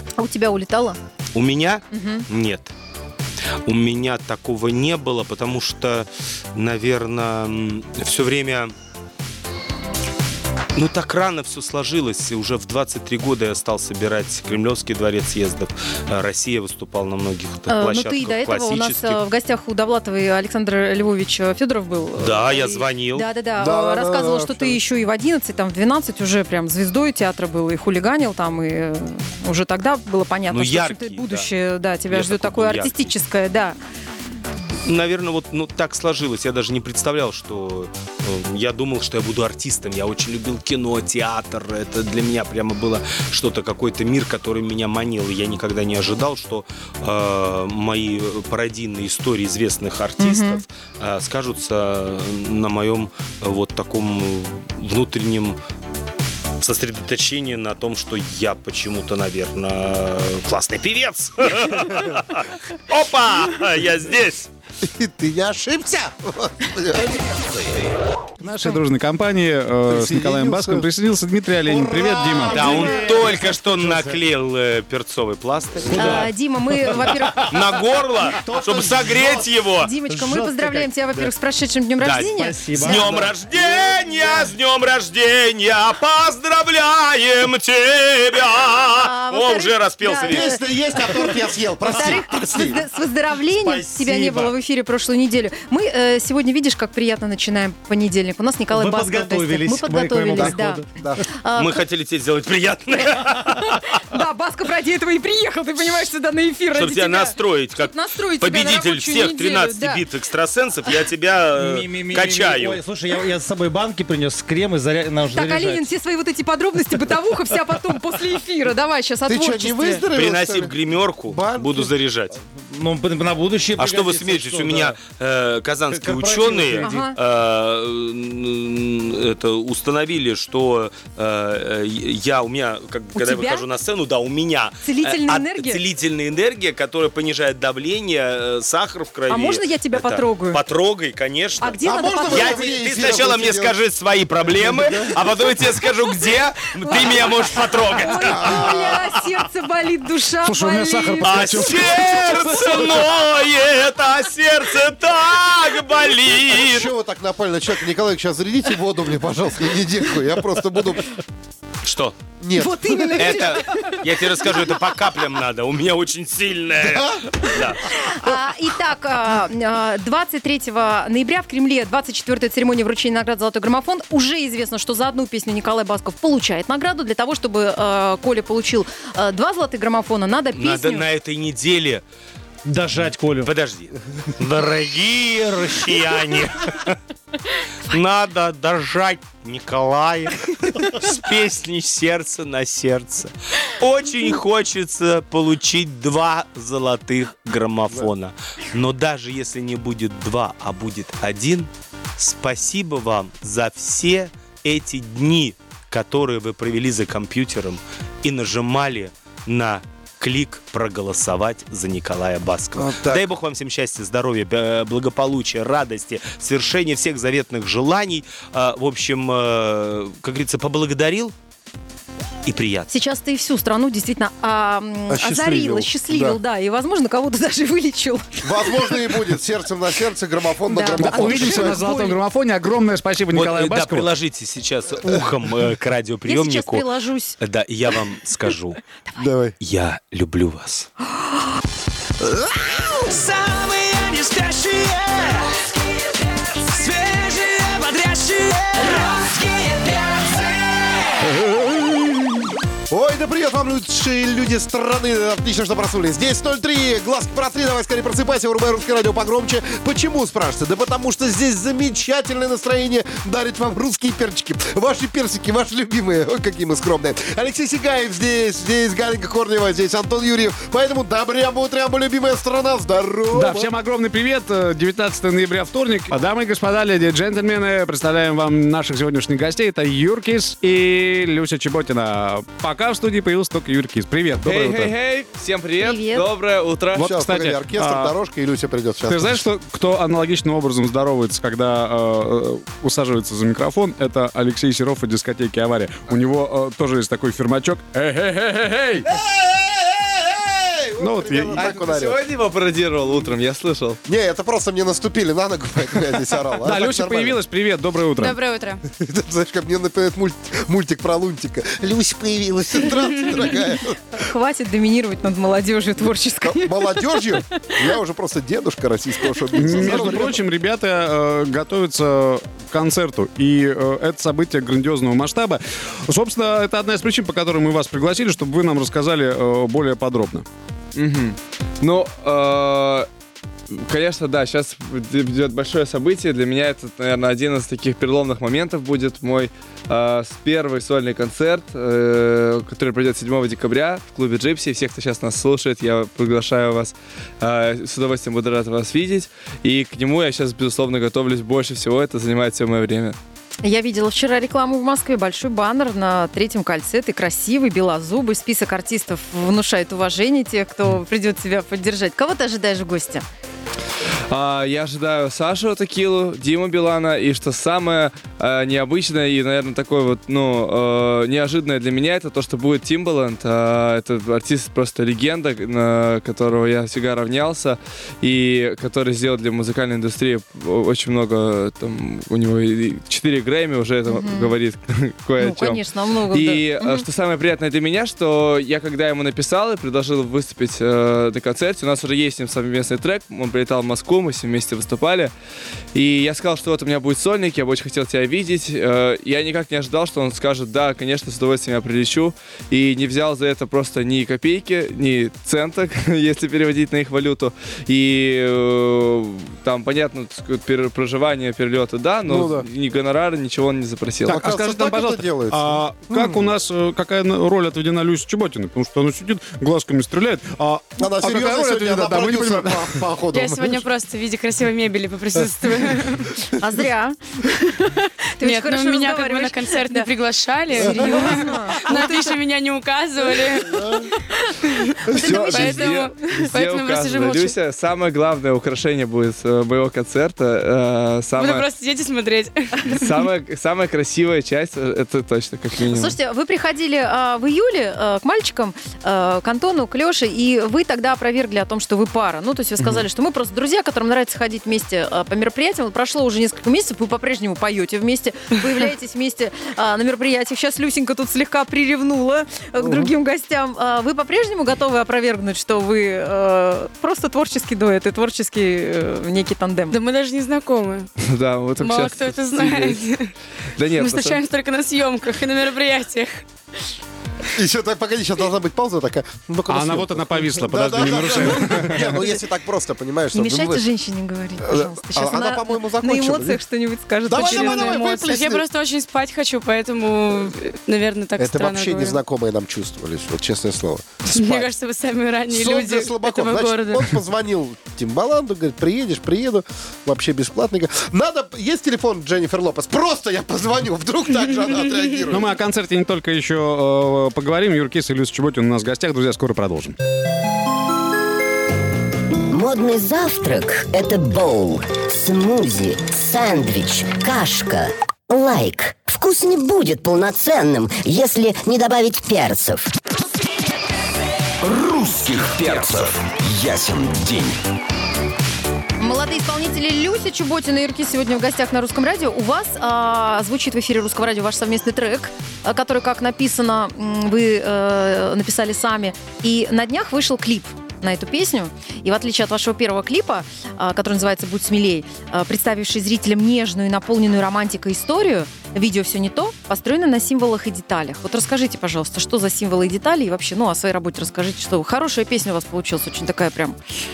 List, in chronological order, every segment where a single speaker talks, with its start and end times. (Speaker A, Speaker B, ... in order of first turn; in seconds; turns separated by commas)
Speaker A: 0.2-1.0, Speaker B: 1.3-2.7, Speaker A: 1.9-2.2, Speaker B: 3.6-8.7, Speaker B: 10.7-19.2, Speaker A: 17.7-33.8, Speaker B: 22.2-23.2, Speaker C: 23.6-24.8, Speaker B: 30.5-31.5, Speaker B: 32.1-33.1, Speaker B: 34.8-55.6, Speaker A: 50.2-50.6, Speaker B: 56.6-64.5, Speaker C: 64.8-67.2, Speaker D: 68.4-72.7, Speaker C: 69.9-70.9, Speaker C: 71.6-73.8, Speaker A: 72.5-73.0, Speaker B: 72.5-76.3, Speaker E: 72.8-74.1, Speaker E: 75.8-76.3, Speaker A: 75.9-77.5, Speaker E: 76.8-77.6, Speaker B: 77.4-79.9, Speaker E: 78.3-79.2, Speaker C: 78.5-79.4, Speaker A: 79.8-82.9, Speaker E: 80.1-81.3, Speaker B: 82.0-90.5, Speaker E: 82.2-83.4, Speaker A: 88.9-91.3, Speaker C: 90.3-92.8, Speaker A: 91.8-101.8, Speaker C: 94.0-94.3, Speaker E: 94.0-94.5, Speaker E: 98.7-101.0, Speaker C: 100.4-101.2, Speaker B: 101.5-103.8, Speaker A: 103.2-110.0, Speaker B: 106.7-112.8, Speaker E: 111.5-115.9, Speaker A: 115.3-120.0, Speaker C: 119.3-120.7, Speaker B: 120.1-122.4, Speaker C: 121.3-121.9, Speaker E: 122.4-125.0, Speaker B: 123.8-148.7, Speaker E: 125.9-127.0, Speaker A: 126.8-127.1, Speaker A: 133.1-133.6, Speaker A: 134.8-135.8, Speaker A: 139.3-140.6, Speaker A: 141.6-142.7, Speaker C: 141.8-143.7, Speaker C: 144.6-145.2, Speaker A: 146.8-151.7, Speaker C: 148.3-149.1, Speaker D: 150.4-153.0, Speaker B: 151.2-156.9, Speaker C: 156.5-161.2, Speaker B: 161.8-162.1, Speaker C: 162.4-163.6, Speaker A: 162.6-164.6, Speaker B: 163.2-167.8, Speaker C: 166.8-167.2, Speaker A: 167.9-181.0, Speaker B: 180.5-182.0, Speaker E: 182.7-183.5, Speaker B: 183.4-187.0, Speaker B: 187.8-221.3, Speaker C: 212.8-213.2, Speaker B: 222.4-222.9, Speaker A: 222.9-228.9, Speaker C: 225.1-226.4, Speaker C: 228.4-231.8, Speaker A: 230.7-232.2, Speaker D: 230.9-234.1, Speaker B: 233.3-236.8, Speaker A: 236.3-237.4, Speaker B: 237.4-238.8, Speaker C: 239.2-239.5, Speaker B: 239.6-240.9, Speaker F: 242.9-251.4, Speaker C: 252.9-273.7, Speaker D: 273.3-284.9, Speaker G: 284.4-287.1, Speaker A: 285.8-286.2, Speaker D: 286.9-288.1, Speaker C: 287.0-289.4, Speaker D: 289.0-299.1, Speaker C: 299.1-302.2, Speaker D: 301.0-301.6, Speaker G: 301.5-304.0, Speaker C: 304.1-307.4, Speaker D: 306.6-308.4, Speaker F: 308.1-308.8, Speaker C: 308.9-314.0, Speaker A: 314.1-317.8, Speaker C: 316.4-320.4, Speaker D: 319.5-330.4, Speaker A: 319.6-320.1, Speaker G: 330.9-333.1, Speaker G: 333.7-353.1, Speaker A: 353.6-363.2, Speaker G: 364.3-395.3, Speaker A: 384.1-384.5, Speaker A: 385.4-387.0, Speaker G: 395.9-414.5, Speaker C: 412.3-412.6, Speaker C: 414.2-416.4, Speaker D: 414.3-423.1, Speaker C: 421.0-423.8, Speaker F: 423.3-426.3, Speaker A: 426.6-430.1, Speaker F: 428.4-434.0, Speaker A: 430.7-432.4, Speaker C: 430.8-431.4, Speaker C: 433.8-434.1, Speaker F: 434.6-437.6, Speaker C: 435.1-435.6, Speaker A: 435.2-436.5, Speaker G: 435.2-441.6, Speaker F: 441.4-443.2, Speaker G: 443.0-446.1, Speaker A: 445.9-469.9, Speaker F: 469.9-471.1, Speaker G: 471.3-473.0, Speaker F: 471.8-473.3, Speaker G: 473.8-474.4, Speaker F: 473.9-476.4, Speaker C: 477.5-483.8, Speaker D: 479.7-482.2, Speaker A: 483.3-488.1, Speaker C: 484.6-486.6, Speaker C: 487.3-488.6, Speaker F: 487.4-492.2, Speaker C: 491.4-494.7, Speaker F: 494.3-497.1, Speaker C: 495.5-505.5, Speaker D: 505.3-509.9, Speaker H: 512.5-522.9, Speaker I: 524.6-527.6, Speaker A: 529.0-556.8